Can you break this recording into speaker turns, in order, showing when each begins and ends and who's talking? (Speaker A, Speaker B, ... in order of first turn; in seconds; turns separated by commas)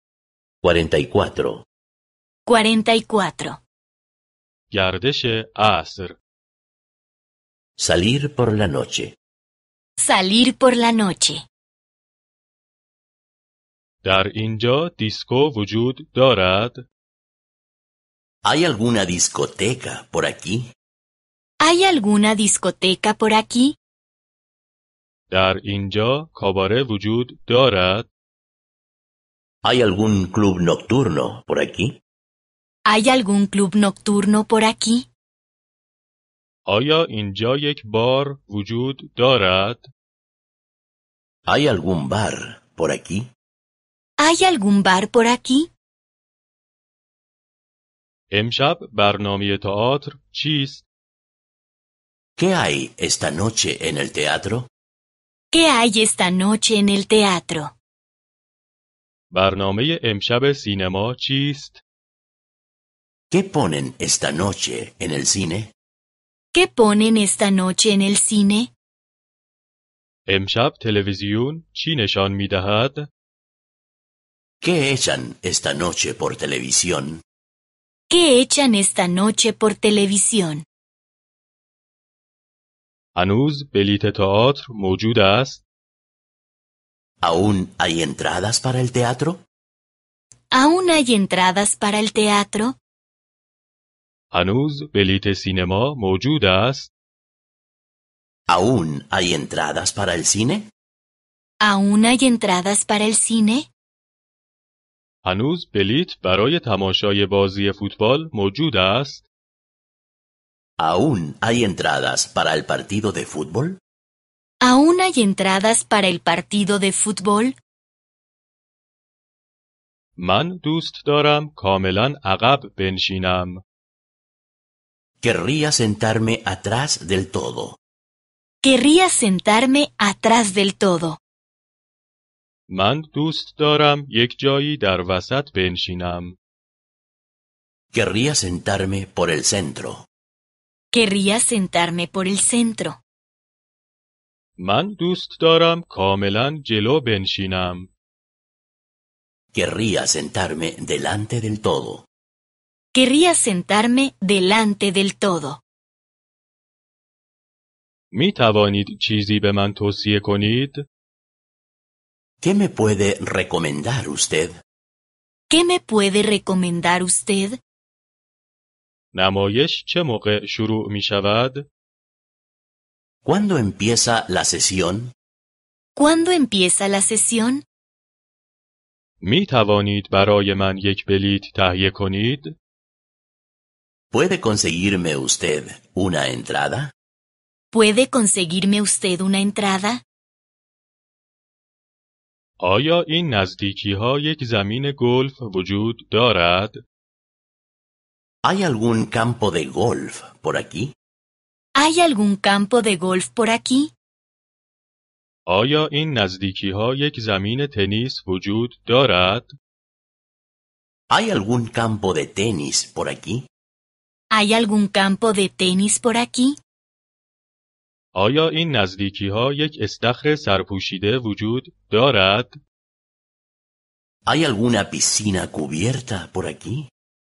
Speaker A: 0.6-1.6, Speaker B: 2.5-3.6, Speaker C: 4.7-6.2, Speaker A: 7.8-9.2, Speaker B: 10.0-11.4, Speaker C: 14.0-16.8, Speaker A: 18.4-20.7, Speaker B: 21.6-23.8, Speaker C: 25.3-28.1, Speaker A: 29.6-32.0, Speaker B: 32.9-35.1, Speaker C: 36.7-39.9, Speaker A: 41.5-43.3, Speaker B: 44.2-45.7, Speaker C: 48.3-50.9, Speaker A: 52.4-54.7, Speaker B: 55.5-57.7, Speaker C: 59.3-61.8, Speaker A: 63.3-65.7, Speaker B: 66.5-68.7, Speaker C: 70.3-73.1, Speaker A: 74.6-77.2, Speaker B: 78.1-80.6, Speaker C: 83.1-85.6, Speaker A: 87.2-89.4, Speaker B: 90.5-92.8, Speaker C: 94.3-96.9, Speaker A: 98.5-100.7, Speaker B: 101.6-103.7, Speaker C: 105.2-109.2, Speaker A: 110.8-113.8, Speaker B: 114.6-117.6, Speaker C: 120.2-123.6, Speaker A: 125.2-127.8, Speaker B: 128.6-131.2, Speaker C: 132.7-136.3, Speaker A: 137.9-140.1, Speaker B: 140.9-143.0, Speaker C: 144.6-147.9, Speaker A: 149.5-152.1, Speaker B: 152.9-155.6, Speaker C: 158.1-160.8, Speaker A: 162.4-164.6, Speaker B: 165.5-167.6, Speaker C: 169.1-171.7, Speaker A: 173.2-175.1, Speaker B: 175.9-177.6, Speaker C: 179.2-182.5, Speaker A: 184.1-186.9, Speaker B: 187.7-190.0, Speaker C: 192.6-196.8, Speaker A: 198.4-200.9, Speaker B: 201.8-203.9, Speaker C: 205.5-209.5, Speaker A: 211.1-213.4, Speaker B: 214.3-216.6, Speaker C: 218.2-222.6, Speaker A: 224.3-226.9